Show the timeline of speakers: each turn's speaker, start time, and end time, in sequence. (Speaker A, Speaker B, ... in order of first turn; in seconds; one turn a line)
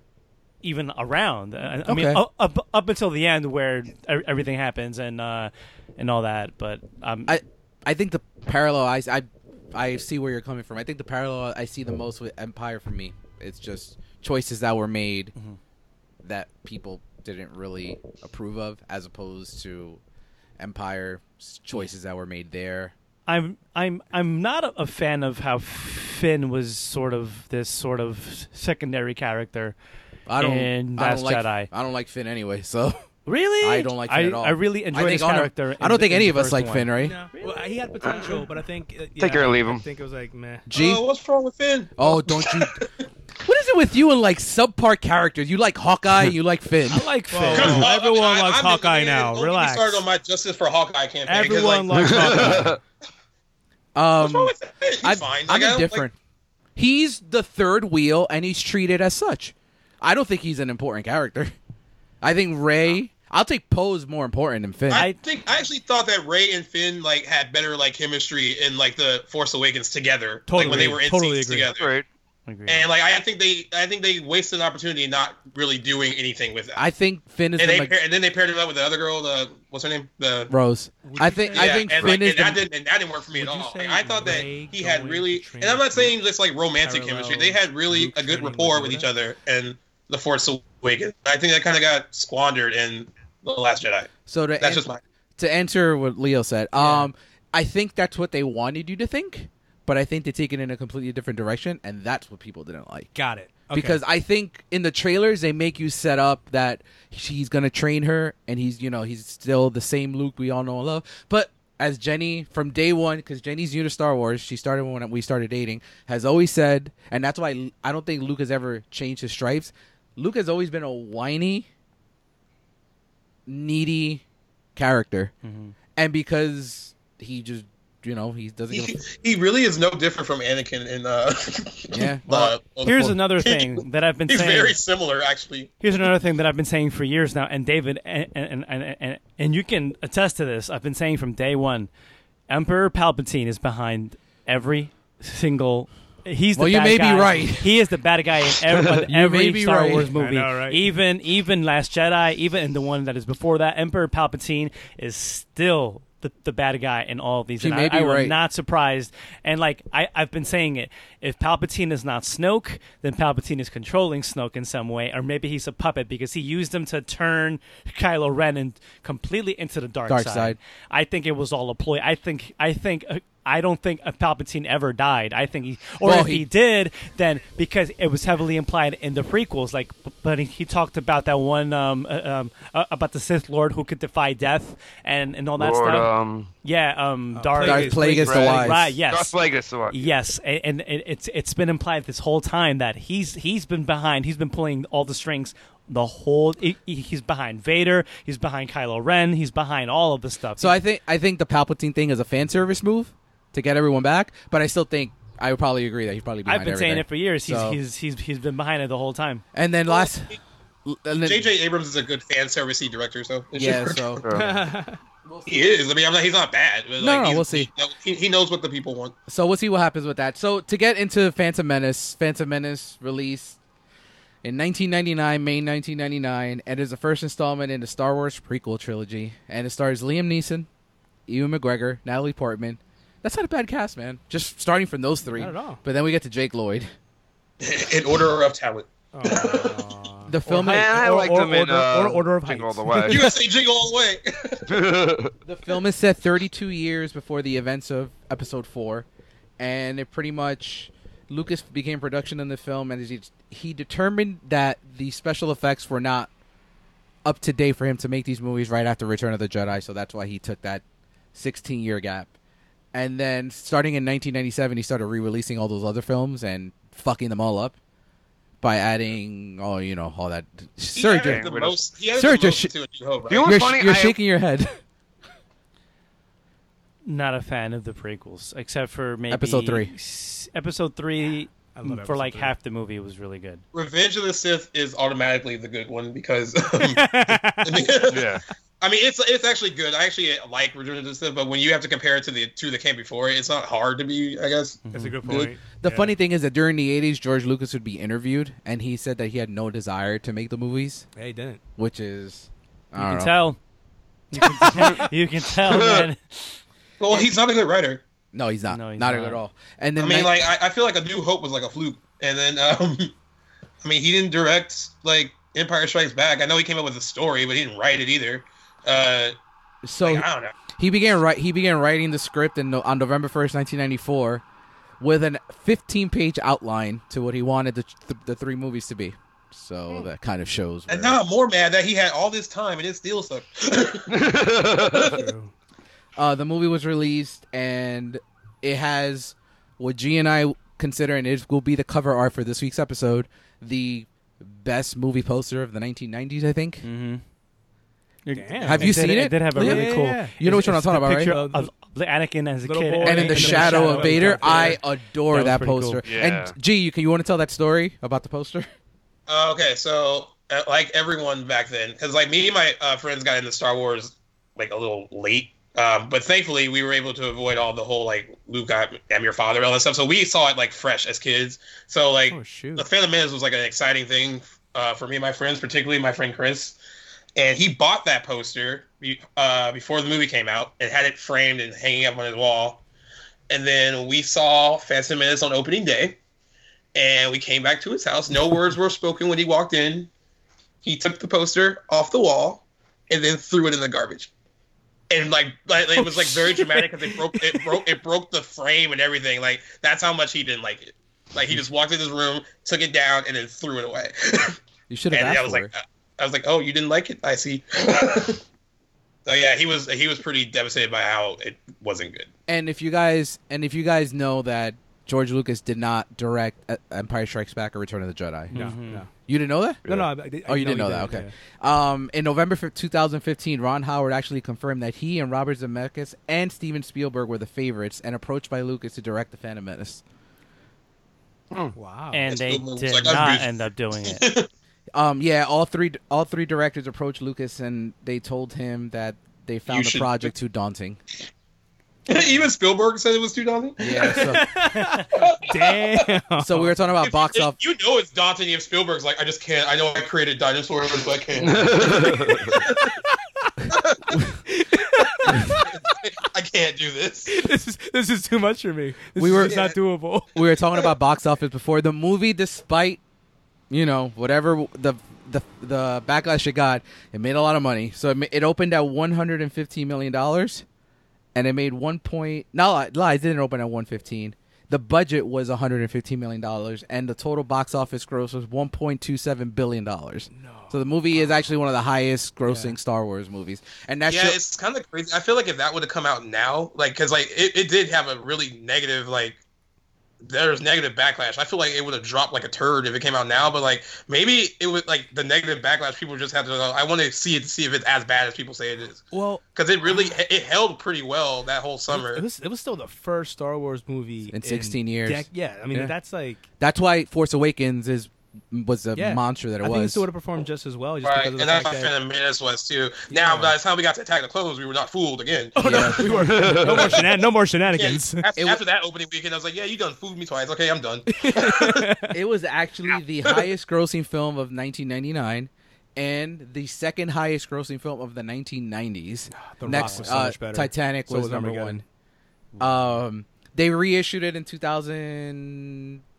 Speaker A: 0.6-7.4
Speaker B: 1.9-2.2
Speaker B: 7.3-15.3
Speaker B: 16.2-20.0
Speaker B: 20.6-22.9
Speaker A: 23.3-29.8
Speaker B: 30.3-33.0
Speaker A: 30.4-31.7
Speaker A: 33.3-37.7
Speaker B: 33.6-37.2
Speaker C: 36.9-40.7
Speaker D: 38.0-38.4
Speaker D: 39.2-39.9
Speaker B: 40.7-41.0
Speaker E: 40.7-43.0
Speaker B: 42.0-42.8
Speaker B: 43.4-47.1
Speaker A: 46.9-47.9
Speaker C: 47.3-50.1
Speaker E: 47.5-52.5
Speaker C: 51.2-52.8
Speaker D: 51.9-52.8
Speaker B: 54.0-56.1
Speaker E: 54.2-56.1
Speaker B: 56.8-61.5
Speaker B: 62.2-65.1
Speaker E: 64.9-71.9
Speaker A: 64.9-65.2
Speaker C: 70.5-71.7
Speaker D: 71.7-72.1
Speaker A: 72.5-72.9
Speaker E: 72.7-76.8
Speaker B: 76.8-78.0
Speaker E: 77.6-80.5
Speaker B: 80.5-82.6
Speaker C: 81.0-81.9
Speaker E: 81.5-95.0
Speaker C: 83.3-86.2
Speaker C: 86.8-89.1
Speaker B: 94.3-94.8
Speaker B: 95.4-103.2
Speaker C: 96.8-97.1
Speaker C: 103.2-104.0
Speaker B: 103.7-121.7
Speaker B: 123.5-124.2
Speaker B: 124.8-125.3
Speaker A: 125.4-125.8
Speaker B: 126.0-129.0
Speaker E: 128.7-135.7
Speaker B: 131.9-133.2
Speaker A: 132.8-134.8
Speaker A: 135.8-141.9
Speaker A: 142.5-200.8
Speaker B: 146.6-147.8
Speaker B: 149.1-150.1
Speaker C: 150.1-150.8
Speaker B: 157.6-158.4
Speaker B: 170.1-170.6
Speaker B: 176.0-176.5
Speaker D: 185.6-186.5
Speaker C: 187.3-188.7
Speaker B: 187.6-189.0
Speaker D: 188.2-190.1
Speaker B: 200.6-207.8
Speaker A: 206.5-209.4
Speaker B: 209.5-211.5
Speaker E: 209.9-210.3
Speaker E: 211.2-214.2
Speaker B: 213.5-214.2
Speaker C: 214.3-215.0
Speaker E: 215.4-219.2
Speaker B: 217.0-217.7
Speaker B: 219.3-223.6
Speaker B: 224.4-230.7
Speaker B: 231.3-236.9
Speaker C: 235.3-235.8
Speaker E: 237.6-239.8
Speaker C: 239.1-243.4
Speaker B: 240.3-240.9
Speaker D: 240.6-243.3
Speaker E: 243.0-244.7
Speaker D: 244.7-245.3
Speaker B: 245.5-249.1
Speaker B: 249.6-256.3
Speaker B: 257.2-260.8
Speaker B: 261.4-262.3
Speaker B: 262.9-267.8
Speaker B: 268.6-271.5
Speaker E: 270.9-273.6
Speaker D: 271.2-271.8
Speaker B: 272.2-272.7
Speaker D: 273.3-274.2
Speaker B: 273.4-274.8
Speaker A: 277.1-283.6
Speaker B: 279.3-279.9
Speaker C: 281.7-282.5
Speaker E: 283.7-287.1
Speaker C: 286.8-287.9
Speaker E: 287.6-295.5
Speaker D: 288.1-288.4
Speaker A: 294.9-295.5
Speaker C: 294.9-296.1
Speaker B: 295.8-301.1
Speaker C: 301.2-301.6
Speaker B: 301.8-303.3
Speaker A: 303.0-303.6
Speaker A: 304.3-306.6
Speaker C: 304.4-305.0
Speaker D: 305.6-306.1
Speaker E: 307.0-308.0
Speaker B: 308.3-310.4
Speaker A: 308.7-309.4
Speaker E: 310.0-313.1
Speaker E: 313.8-319.4
Speaker B: 319.8-324.4
Speaker E: 320.0-320.6
Speaker B: 325.0-331.2
Speaker E: 330.9-334.1
Speaker D: 334.1-335.2
Speaker C: 335.1-335.5
Speaker B: 336.2-346.9
Speaker A: 346.8-347.2
Speaker A: 348.3-356.0
Speaker C: 348.3-351.7
Speaker B: 348.6-351.3
Speaker C: 352.6-354.8
Speaker B: 353.0-358.7
Speaker D: 356.0-356.6
Speaker E: 359.3-376.8
Speaker C: 372.3-372.9
Speaker E: 377.4-382.8
Speaker E: 383.5-386.2
Speaker E: 386.9-390.1
Speaker E: 390.8-394.3
Speaker E: 395.1-404.6
Speaker C: 396.0-397.4
Speaker B: 404.9-405.7
Speaker E: 405.1-408.4
Speaker E: 409.3-412.3
Speaker B: 412.5-418.6
Speaker C: 418.5-419.1
Speaker A: 418.5-419.1
Speaker B: 419.3-419.9
Speaker D: 419.9-420.1
Speaker C: 419.9-421.3
Speaker B: 420.4-430.0
Speaker C: 431.7-432.3
Speaker A: 432.1-434.2
Speaker E: 432.3-434.5
Speaker B: 434.9-441.0
Speaker E: 439.7-440.3
Speaker E: 442.1-444.4
Speaker B: 443.8-444.4
Speaker C: 444.0-446.8
Speaker E: 445.1-446.1
Speaker B: 446.4-447.6
Speaker E: 447.0-452.9
Speaker D: 451.4-452.6
Speaker C: 452.3-453.5
Speaker E: 453.7-454.2
Speaker C: 454.5-455.9
Speaker E: 455.2-457.3
Speaker C: 457.3-460.4
Speaker B: 459.2-459.6
Speaker E: 459.4-459.8
Speaker B: 460.3-463.0
Speaker B: 463.7-470.6
Speaker B: 471.4-484.4
Speaker C: 480.3-481.5
Speaker C: 482.4-482.8
Speaker E: 484.1-489.4
Speaker E: 490.2-499.0
Speaker C: 499.1-500.1
Speaker E: 499.6-502.2
Speaker C: 501.9-506.4
Speaker B: 504.3-505.9
Speaker B: 506.6-510.1
Speaker C: 508.9-511.9
Speaker E: 511.0-516.1
Speaker C: 513.1-513.6
Speaker C: 515.6-518.3
Speaker B: 515.6-516.2
Speaker D: 516.1-516.9
Speaker E: 516.8-517.1
Speaker E: 517.7-521.9
Speaker B: 518.4-518.6
Speaker C: 521.1-522.2
Speaker B: 522.1-531.8
Speaker C: 529.3-531.8
Speaker A: 529.8-530.1
Speaker B: 532.6-536.0